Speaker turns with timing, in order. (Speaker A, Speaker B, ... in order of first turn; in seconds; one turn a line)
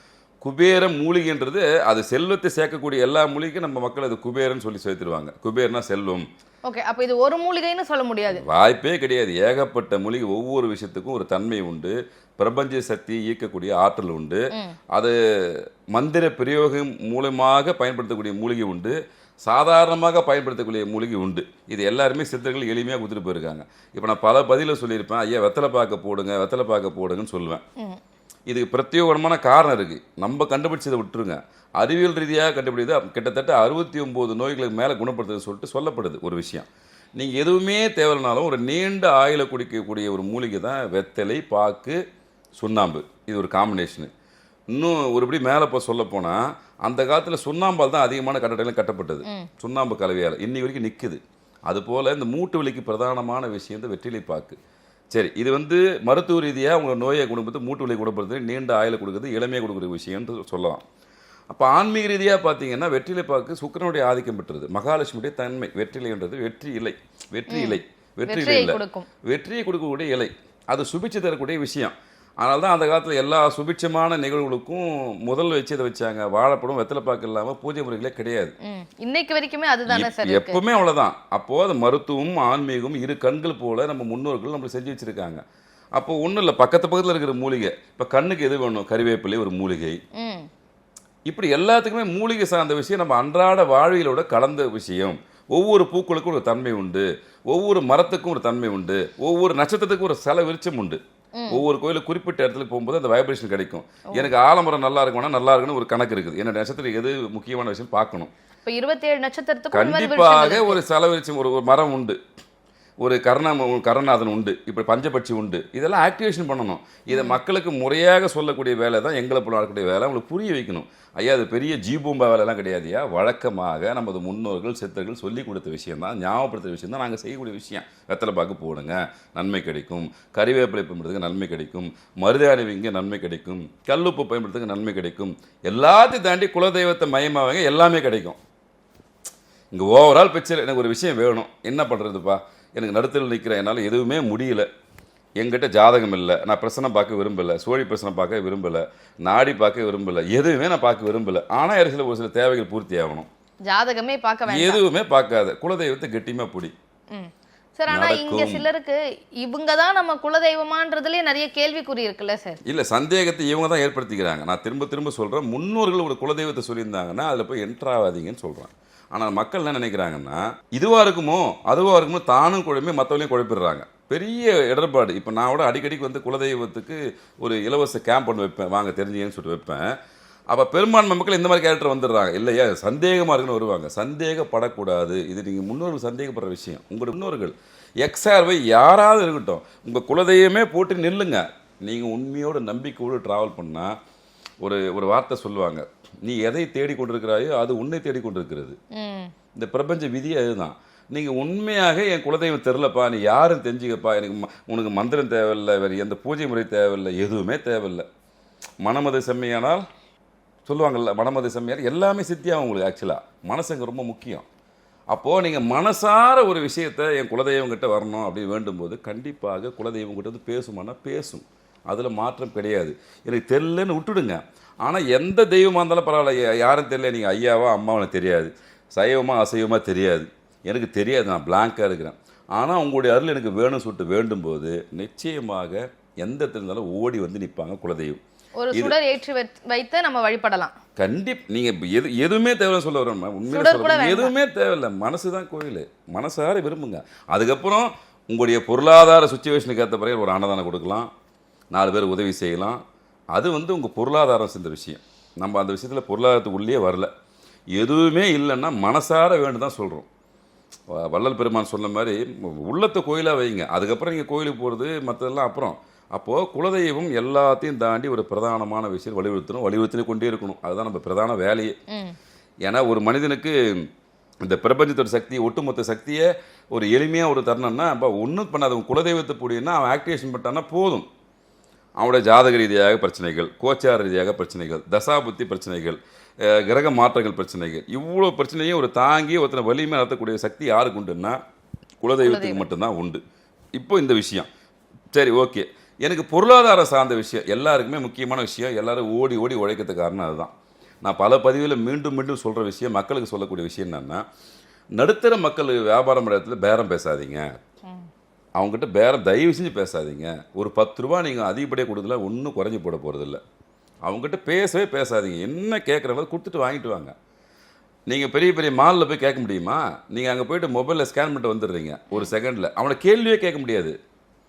Speaker A: 0.4-6.3
Speaker B: 6.7-8.4
Speaker A: 8.3-27.6
Speaker A: 28.5-42.0
Speaker A: 42.6-44.1
Speaker A: 44.7-54.6
Speaker A: 55.1-60.8
Speaker A: 61.5-78.5
Speaker B: 67.5-69.1
Speaker B: 78.7-80.6
Speaker A: 79.9-85.4
Speaker A: 86.0-90.0
Speaker B: 90.2-90.5
Speaker A: 91.3-101.0
Speaker B: 101.4-101.6
Speaker A: 101.5-108.3
Speaker B: 108.7-110.8
Speaker A: 109.7-112.2
Speaker A: 113.0-138.4
Speaker B: 117.1-117.4
Speaker A: 139.7-144.7
Speaker A: 145.4-153.3
Speaker B: 153.7-154.8
Speaker A: 154.5-156.8
Speaker B: 157.1-162.6
Speaker A: 157.9-158.7
Speaker A: 162.7-180.0
Speaker A: 180.5-194.0
Speaker A: 194.6-198.8
Speaker B: 198.9-199.3
Speaker A: 199.6-208.1
Speaker A: 208.8-209.9
Speaker A: 210.7-214.5
Speaker A: 215.1-238.2
Speaker B: 238.6-240.8
Speaker A: 241.0-251.1
Speaker B: 243.5-244.3
Speaker A: 251.7-252.8
Speaker A: 253.3-257.1
Speaker A: 257.7-260.1
Speaker A: 260.9-271.8
Speaker B: 271.9-272.2
Speaker A: 272.6-273.9
Speaker A: 274.4-281.1
Speaker A: 282.0-291.4
Speaker A: 292.0-293.2
Speaker B: 292.2-292.7
Speaker A: 293.8-294.5
Speaker A: 295.1-304.2
Speaker A: 305.0-307.6
Speaker A: 308.6-313.4
Speaker A: 314.1-317.1
Speaker A: 318.1-324.0